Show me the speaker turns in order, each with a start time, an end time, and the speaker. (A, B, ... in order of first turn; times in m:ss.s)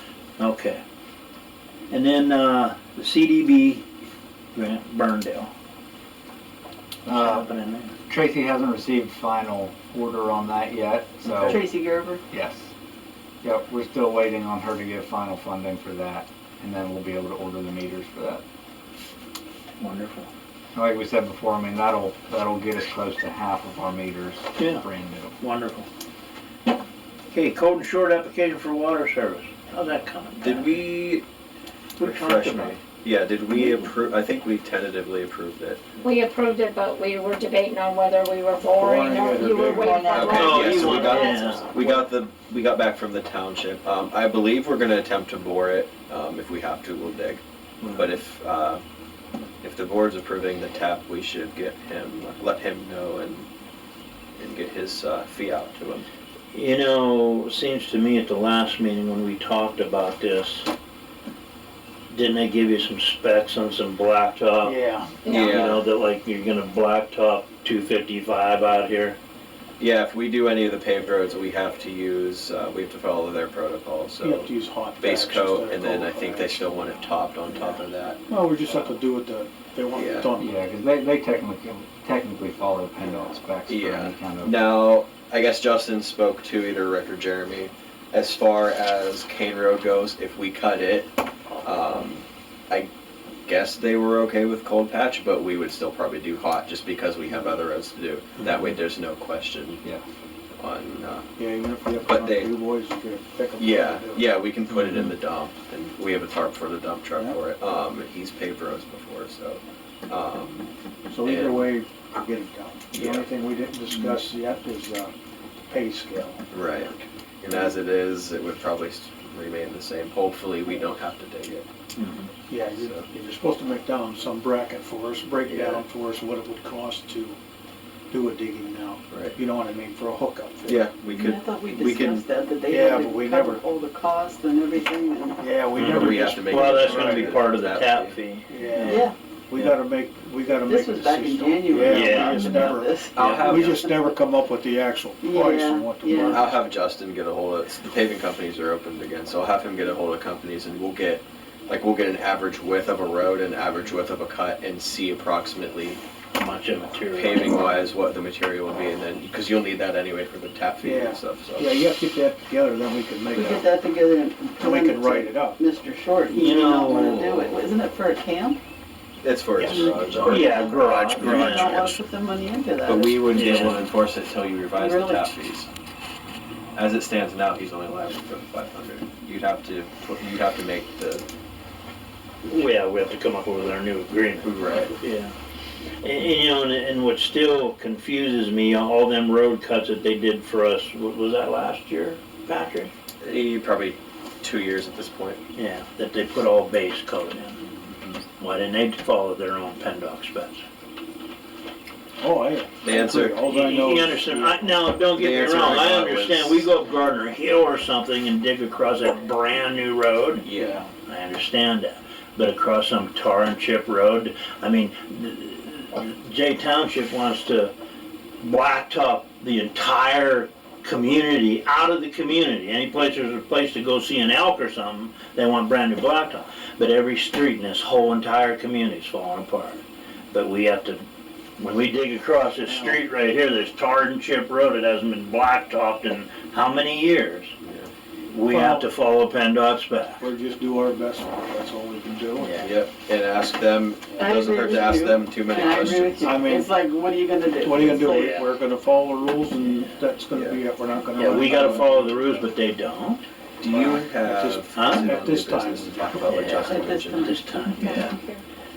0:00.4-0:00.8 A
0:01.9-0:03.8 A
0:04.5-0:05.5 A
0:07.0-0:07.5 B
0:07.1-0:08.0 A
0:08.1-0:11.6 B
0:11.2-0:12.2 C
0:12.3-0:12.7 B
0:13.4-0:18.4 B
0:19.8-0:20.3 A
0:20.7-0:25.3 B
0:24.6-0:24.8 A
0:25.4-0:25.9 A
0:27.3-0:30.8 A
0:30.4-0:31.2 D
0:32.0-0:35.8 D
0:32.0-0:32.8 A
0:36.0-0:41.7 E
0:38.8-0:40.5 F
0:39.5-0:40.5 C
0:40.0-0:47.4 D
0:40.3-0:41.7 A
0:47.8-0:48.1 A
0:47.9-0:48.8 D
0:49.6-0:53.5 D
0:54.4-0:56.0 D
0:56.5-1:00.7 A
1:02.1-1:09.2 A
1:04.6-1:05.2 F
1:05.2-1:05.7 E
1:05.2-1:05.8 D
1:09.8-1:18.8 D
1:14.2-1:16.7 F
1:18.3-1:20.5 F
1:19.9-1:20.3 D
1:20.4-1:24.6 B
1:23.7-1:31.1 D
1:31.6-1:32.9 D
1:33.4-1:39.8 D
1:40.6-1:41.3 D
1:41.4-1:44.3 F
1:42.0-1:42.5 D
1:43.6-1:50.7 D
1:44.7-1:45.1 A
1:51.1-1:55.1 F
1:51.2-1:51.7 D
1:52.9-1:53.3 D
1:55.7-1:56.4 F
1:56.5-2:01.6 D
2:02.0-2:02.3 A
2:02.5-2:07.4 F
2:02.7-2:03.1 D
2:05.4-2:05.8 D
2:08.1-2:10.9 F
2:09.1-2:09.4 D
2:10.7-2:12.2 D
2:11.1-2:15.4 C
2:12.7-2:13.6 F
2:15.4-2:17.3 F
2:15.7-2:18.2 D
2:15.7-2:19.7 A
2:18.5-2:26.6 F
2:18.8-2:19.1 C
2:20.6-2:24.2 C
2:21.8-2:22.7 A
2:23.1-2:23.9 D
2:25.2-2:26.5 C
2:26.3-2:36.0 D
2:36.4-2:37.7 A
2:37.1-2:41.8 D
2:40.8-2:43.8 F
2:43.3-2:48.6 C
2:44.6-2:45.6 F
2:46.3-2:47.4 A
2:47.3-2:47.5 D
2:49.2-2:52.0 D
2:49.6-2:50.1 F
2:49.6-2:52.0 A
2:50.0-2:53.4 C
2:52.8-2:55.7 D
2:53.3-2:53.8 A
2:54.7-2:55.4 C
2:56.7-3:01.2 D
3:02.4-3:05.3 A
3:04.4-3:04.9 D
3:06.0-3:12.9 A
3:13.2-3:15.4 D
3:15.5-3:17.6 A
3:18.4-3:20.6 A
3:22.2-3:25.0 F
3:22.8-3:23.5 D
3:23.4-3:30.5 A
3:25.0-3:26.7 D
3:30.4-3:30.8 D
3:31.0-3:37.7 A
3:38.4-3:51.0 A
3:51.6-3:57.5 A
3:52.6-3:53.0 F
3:57.6-3:57.9 D
3:58.3-4:00.2 A
3:58.4-3:58.9 F
4:00.2-4:02.6 F
4:02.4-4:02.7 A
4:02.6-4:06.5 D
4:04.1-4:08.4 C
4:06.2-4:06.8 F
4:07.6-4:12.4 F
4:07.8-4:08.5 A
4:09.6-4:09.9 A
4:10.3-4:10.6 D
4:11.1-4:13.2 A
4:13.6-4:17.4 D
4:13.7-4:16.5 F
4:14.8-4:15.2 A
4:16.2-4:18.2 A
4:16.4-4:17.6 C
4:17.8-4:18.4 E